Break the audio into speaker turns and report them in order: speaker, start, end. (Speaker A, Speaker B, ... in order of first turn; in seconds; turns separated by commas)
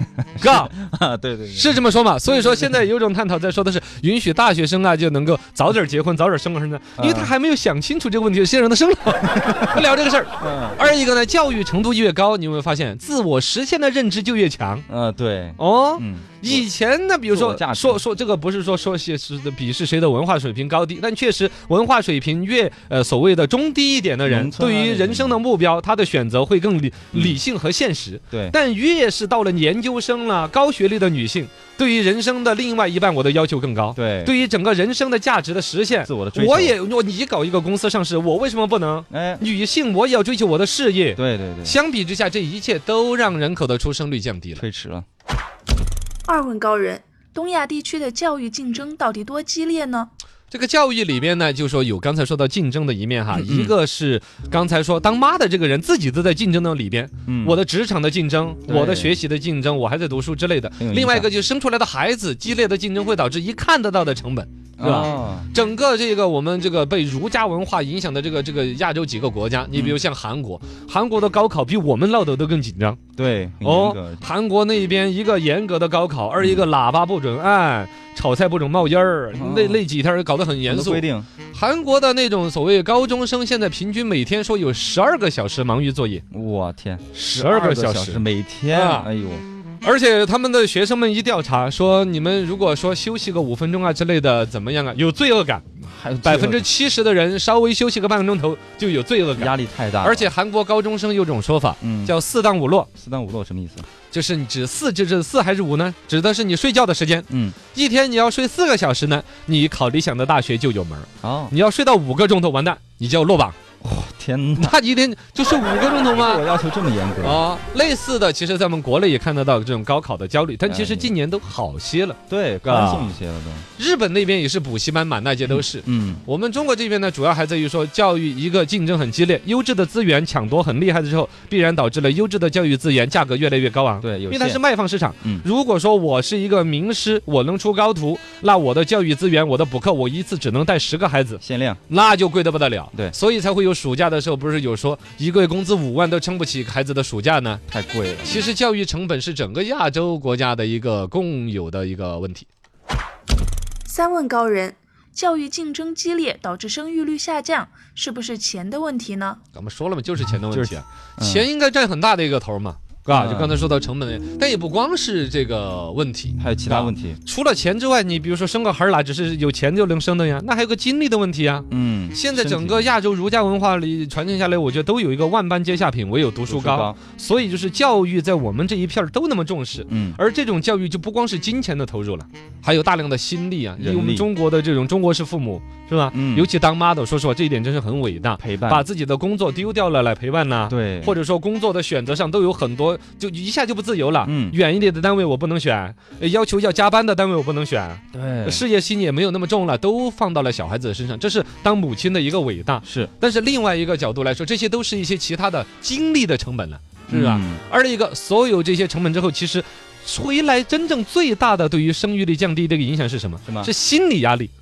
Speaker A: 0.2-2.7, Speaker B: 0.4-0.7, Speaker B: 1.5-14.8, Speaker A: 7.0-7.3, Speaker A: 10.4-10.9, Speaker A: 14.9-16.7, Speaker B: 15.6-44.6, Speaker A: 17.3-18.0, Speaker A: 24.3-25.4, Speaker A: 27.1-27.4, Speaker A: 28.3-28.6, Speaker A: 34.0-34.3, Speaker A: 36.0-36.8, Speaker A: 39.1-39.5, Speaker A: 41.2-41.8, Speaker A: 44.5-45.1, Speaker C: 46.3-50.1, Speaker B: 50.5-73.0, Speaker A: 53.3-53.8, Speaker A: 57.3-57.6, Speaker A: 58.7-59.2, Speaker A: 60.8-61.3, Speaker A: 64.8-65.5, Speaker A: 69.7-70.0, Speaker A: 73.2-74.3, Speaker B: 73.6-86.2, Speaker A: 76.4-76.7, Speaker A: 79.3-79.8, Speaker A: 80.7-81.3, Speaker A: 86.3-89.4, Speaker B: 87.1-89.1, Speaker B: 89.8-95.7, Speaker A: 95.9-96.7, Speaker B: 96.2-102.9, Speaker A: 99.3-100.3, Speaker A: 101.8-102.2, Speaker A: 103.0-103.9, Speaker B: 104.1-113.6, Speaker A: 107.3-107.6, Speaker A: 111.2-111.5, Speaker A: 113.8-114.8, Speaker B: 114.6-116.5, Speaker A: 116.1-117.5, Speaker B: 117.2-123.2, Speaker A: 120.7-121.1, Speaker A: 122.3-123.7, Speaker B: 123.8-147.6, Speaker A: 125.5-126.2, Speaker A: 134.0-134.6, Speaker A: 141.4-141.8, Speaker A: 147.7-148.5, Speaker B: 148.2-152.5, Speaker C: 153.9-159.4, Speaker B: 159.5-214.5, Speaker A: 160.5-161.5, Speaker A: 163.1-163.7, Speaker A: 166.4-167.2, Speaker A: 171.7-172.9, Speaker A: 176.5-177.0, Speaker A: 179.9-180.2, Speaker A: 183.8-184.3, Speaker A: 186.1-186.5, Speaker A: 188.4-188.9, Speaker A: 190.7-191.2, Speaker A: 194.2-194.6, Speaker A: 198.1-198.7, Speaker A: 202.9-203.1, Speaker A: 207.1-207.6, Speaker A: 213.4-213.7